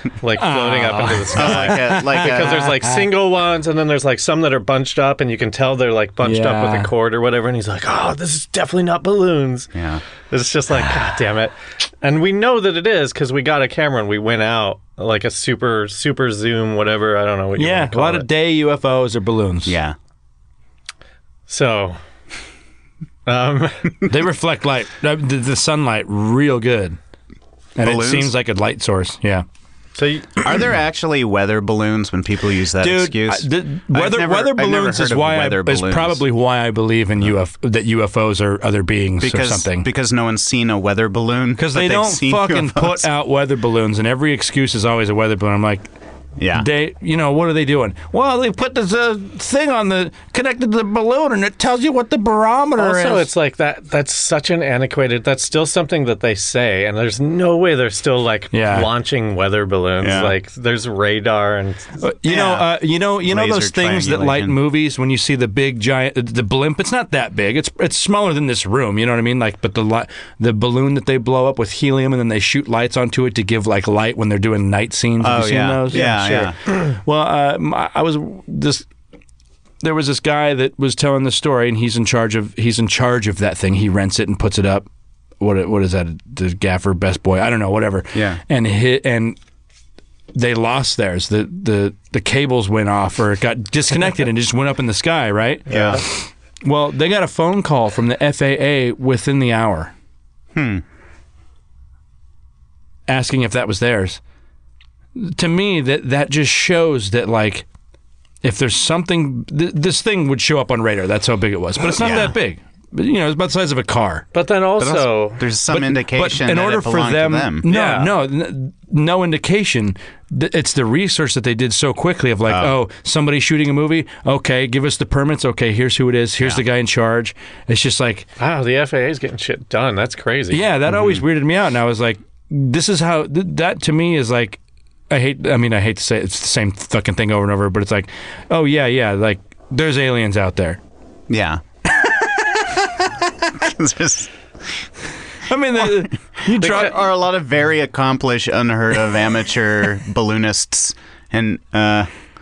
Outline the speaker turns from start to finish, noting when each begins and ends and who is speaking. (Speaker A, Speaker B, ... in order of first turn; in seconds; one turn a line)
Speaker A: 0.2-9.7
Speaker B: 0.4-3.0
Speaker C: 1.3-2.7
Speaker B: 6.2-6.9
Speaker C: 9.8-10.0
Speaker A: 10.3-18.2
Speaker B: 17.6-19.8
Speaker C: 19.6-20.0
Speaker A: 21.5-22.0
Speaker A: 23.2-24.0
Speaker B: 24.1-27.0
Speaker B: 27.8-29.4
Speaker C: 27.8-28.3
Speaker A: 29.9-30.4
Speaker C: 30.4-36.2
Speaker B: 32.8-39.9
Speaker C: 39.2-43.1
Speaker B: 41.6-45.9
Speaker C: 46.4-46.7
Speaker B: 46.5-53.3
Speaker A: 52.8-61.9
Speaker B: 58.5-58.9
Speaker C: 60.0-60.4
Speaker B: 62.0-78.8
Speaker C: 62.2-64.6
Speaker C: 75.2-76.5
Speaker B: 79.8-84.9
Speaker B: 85.4-89.4
Speaker C: 88.1-88.4
Speaker B: 90.3-99.9
Speaker A: 95.7-96.0
Speaker C: 95.7-96.0
Speaker C: 100.5-100.8
Speaker B: 103.1-104.2
Speaker B: 105.2-107.6
Speaker B: 108.4-114.2
Speaker C: 112.0-112.4
Speaker A: 114.3-115.5
Speaker C: 114.8-117.7
Speaker B: 115.7-128.3
Speaker A: 117.7-118.1
Speaker C: 122.5-122.7
Speaker A: 128.4-130.7
Speaker B: 130.5-140.8
Speaker C: 130.9-131.2
Speaker C: 141.3-141.6
Speaker B: 142.0-142.8
Speaker C: 143.5-144.8
Speaker B: 145.5-147.0
Speaker C: 145.8-152.1